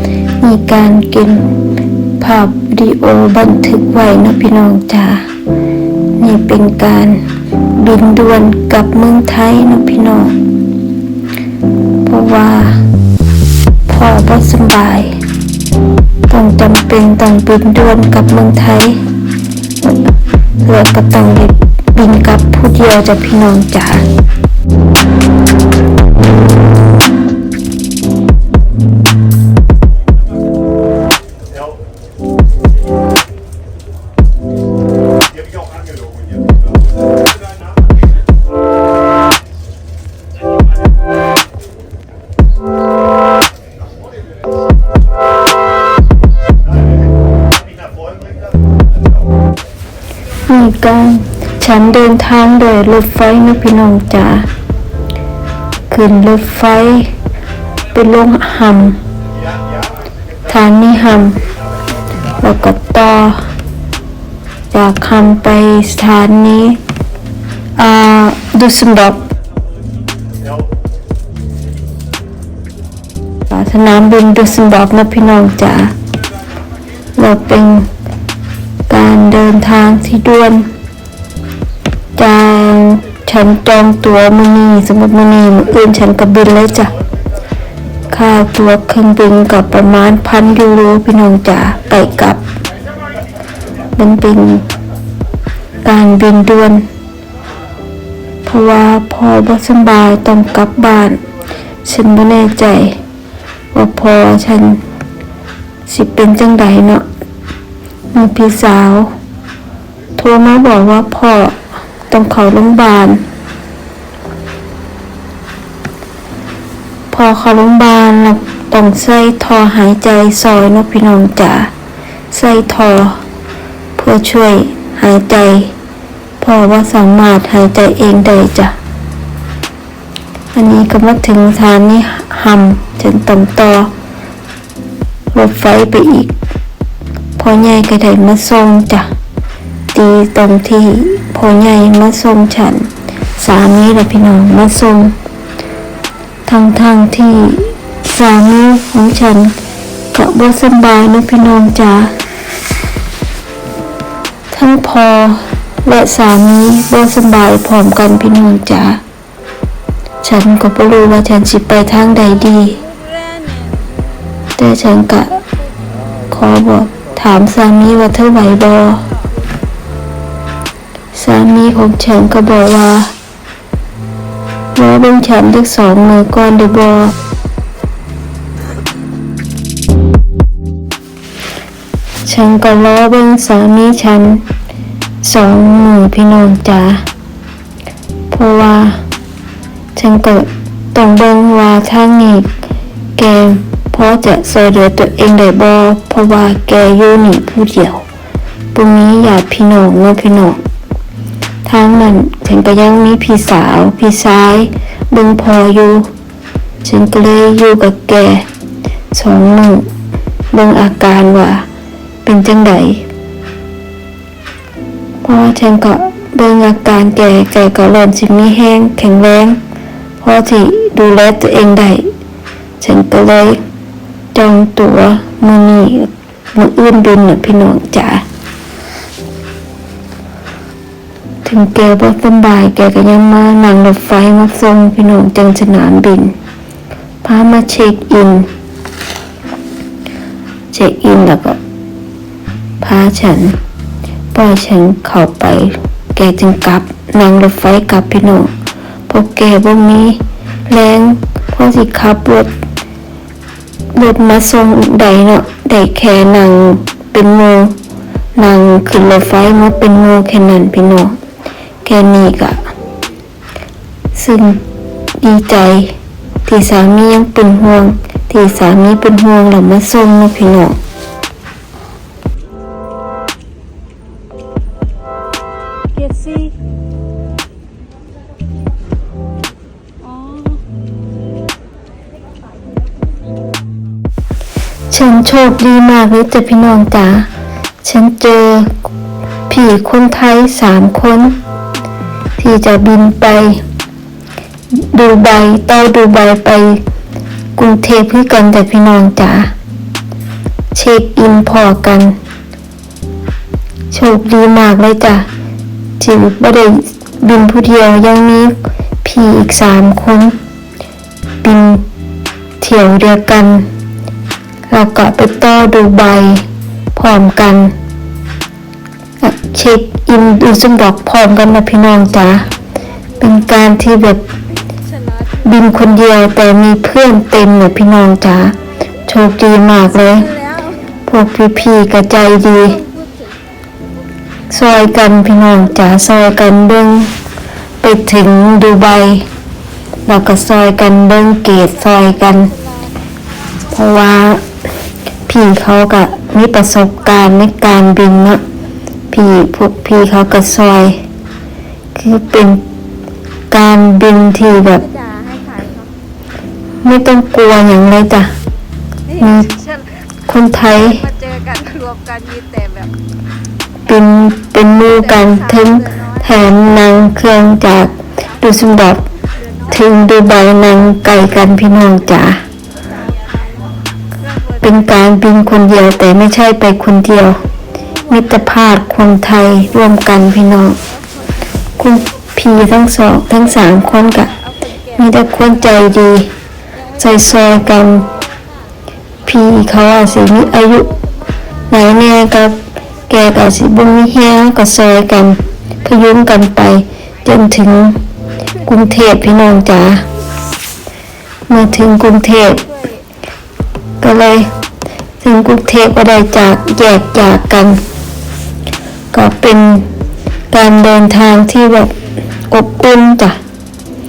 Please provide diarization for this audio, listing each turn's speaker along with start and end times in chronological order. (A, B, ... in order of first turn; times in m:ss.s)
0:00.4-0:01.6 A
0:02.2-0:05.2 A
0:06.2-0:07.2 A
0:07.8-0:10.3 A
0:12.0-0:12.8 A
0:13.9-0:15.2 A
0:16.3-0:19.0 A
0:20.6-0:24.0 A
0:50.5-0:54.5 A
0:55.9-0:57.1 A
0:57.9-0:59.0 A
1:00.4-1:01.4 A
1:02.3-1:03.5 A
1:04.7-1:06.8 A
1:07.8-1:09.2 A
1:13.5-1:15.9 A
1:17.2-1:17.9 A
1:18.9-1:20.7 A
1:22.2-1:27.0 A
1:28.1-1:32.4 A
1:34.0-1:34.7 A
1:35.8-1:36.9 A
1:38.4-1:41.2 A
1:41.8-1:43.0 A
1:43.7-1:44.8 A
1:45.9-1:47.0 A
1:48.1-1:49.1 A
1:50.2-1:51.6 A
1:52.1-1:53.2 A
1:57.1-2:01.7 A
2:02.3-2:03.2 A
2:04.0-2:05.7 A
2:06.4-2:08.7 A
2:10.5-2:13.9 A
2:15.3-2:16.3 A
2:17.4-2:19.1 A
2:19.9-2:25.2 A
2:26.5-2:29.6 A
2:30.1-2:32.2 A
2:34.5-2:39.0 A
2:40.2-2:42.8 A
2:42.9-2:43.8 B
2:44.6-2:45.4 A
2:46.3-2:49.1 A
2:51.1-2:53.1 A
2:54.7-2:57.1 A
3:02.2-3:04.5 A
3:05.2-3:07.0 A
3:08.3-3:09.0 A
3:10.0-3:12.5 A
3:13.2-3:18.0 A
3:18.7-3:20.6 A
3:21.6-3:26.1 A
3:26.8-3:28.5 A
3:29.1-3:29.9 A
3:30.5-3:31.7 A
3:32.2-3:33.0 A
3:35.2-3:39.6 A
3:40.2-3:42.1 A
3:42.8-3:43.6 A
3:44.3-3:48.2 A
3:51.4-3:56.3 A
3:57.2-3:58.5 A
4:00.7-4:01.6 A
4:02.8-4:03.6 A
4:04.3-4:08.5 A
4:09.1-4:12.5 A
4:13.9-4:17.8 A
4:18.4-4:21.2 A
4:21.8-4:22.7 A
4:24.1-4:24.6 A
4:25.2-4:30.8 A
4:36.0-4:36.5 B
4:40.1-4:40.6 B
4:44.9-4:47.3 A
4:47.8-4:48.8 A
4:49.5-4:51.4 A
4:52.4-4:53.6 A
4:54.7-4:56.8 A
4:57.6-4:59.5 A
5:00.7-5:02.2 A
5:03.9-5:05.3 A
5:06.0-5:10.4 A
5:11.4-5:11.8 A
5:12.6-5:13.7 A
5:14.7-5:17.7 A
5:19.2-5:22.5 A
5:23.2-5:24.3 A
5:25.0-5:25.4 B
5:25.4-5:30.3 A
5:30.3-5:30.8 B
5:31.0-5:32.8 A
5:32.8-5:33.4 B
5:34.5-5:37.1 A
5:37.8-5:39.3 A
5:40.1-5:42.5 A
5:42.6-5:42.9 B
5:43.6-5:44.4 A
5:45.2-5:48.4 A
5:49.1-5:51.0 A
5:51.9-5:52.6 A
5:53.5-5:54.8 A
5:54.8-5:55.9 B
5:56.8-5:58.3 A
5:59.2-5:59.5 A
5:59.4-6:00.0 B
6:00.2-6:01.0 A
6:01.0-6:02.9 B
6:03.9-6:09.0 A
6:05.8-6:06.1 B
6:09.7-6:12.4 A
6:14.6-6:17.4 A
6:18.1-6:20.8 A
6:21.8-6:24.3 A
6:24.4-6:24.8 B
6:25.0-6:26.3 A
6:27.0-6:28.1 A
6:29.2-6:30.9 A
6:31.7-6:38.0 A
6:38.6-6:40.0 A
6:41.5-6:42.6 A
6:44.0-6:44.5 A
6:45.2-6:47.8 A
6:49.1-6:49.9 A
6:50.5-6:53.4 A